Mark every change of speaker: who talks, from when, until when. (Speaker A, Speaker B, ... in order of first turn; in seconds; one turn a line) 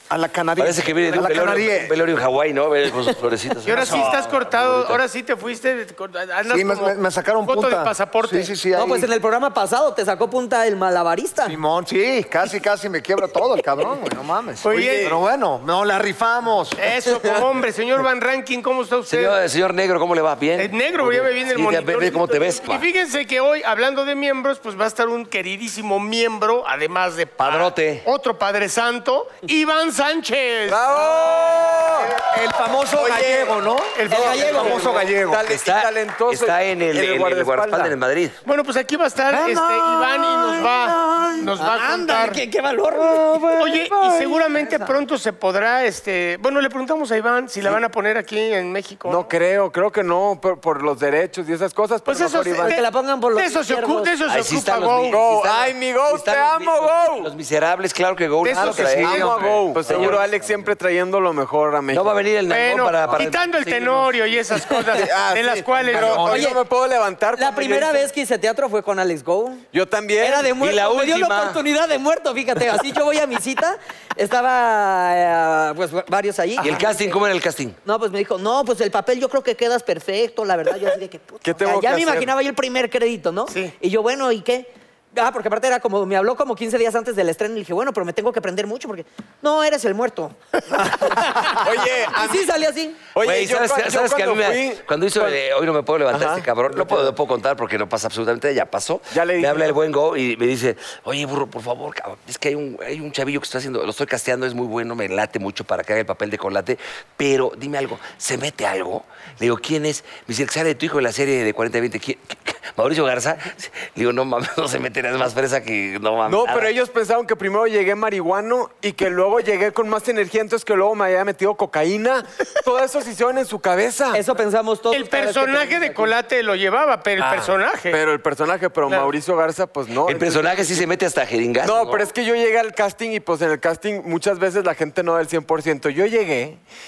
Speaker A: 0.1-2.0
Speaker B: 0.6-5.0
Speaker C: 3.6-8.5
Speaker A: 3.7-4.4
Speaker A: 6.5-9.1
Speaker D: 8.7-11.6
Speaker A: 11.4-16.8
Speaker C: 14.6-15.2
Speaker E: 14.7-15.2
Speaker C: 16.8-19.3
Speaker E: 17.2-17.4
Speaker B: 19.1-22.8
Speaker C: 20.6-30.9
Speaker B: 27.4-28.1
Speaker E: 30.6-32.2
Speaker A: 32.2-35.4
Speaker E: 32.9-33.5
Speaker C: 34.0-35.0
Speaker D: 34.1-34.9
Speaker E: 34.1-37.9
Speaker B: 35.5-38.4
Speaker C: 38.5-42.4
Speaker A: 39.3-40.7
Speaker E: 39.4-39.8
Speaker E: 40.4-41.2
Speaker D: 41.5-44.9
Speaker E: 42.9-44.4
Speaker C: 43.6-49.3
Speaker E: 49.0-52.8
Speaker C: 52.0-55.2
Speaker D: 52.6-54.1
Speaker B: 54.3-60.2
Speaker E: 55.1-57.3
Speaker C: 58.4-59.4
Speaker A: 58.5-60.7
Speaker E: 58.8-62.1
Speaker B: 61.9-64.1
Speaker C: 62.5-66.3
Speaker E: 64.9-68.1
Speaker A: 65.9-66.5
Speaker D: 66.2-66.6
Speaker D: 67.3-69.6
Speaker E: 69.7-70.5
Speaker D: 70.2-76.8
Speaker B: 70.6-71.6
Speaker B: 76.6-77.8
Speaker D: 77.8-93.0
Speaker E: 81.4-82.3
Speaker C: 83.5-83.7
Speaker E: 90.7-92.5
Speaker E: 93.1-95.4
Speaker B: 93.2-116.7
Speaker E: 96.1-97.1
Speaker E: 99.1-99.8
Speaker E: 116.2-124.2
Speaker D: 124.1-126.1
Speaker C: 124.9-128.0
Speaker E: 127.2-130.8
Speaker B: 130.1-132.1
Speaker E: 131.6-136.6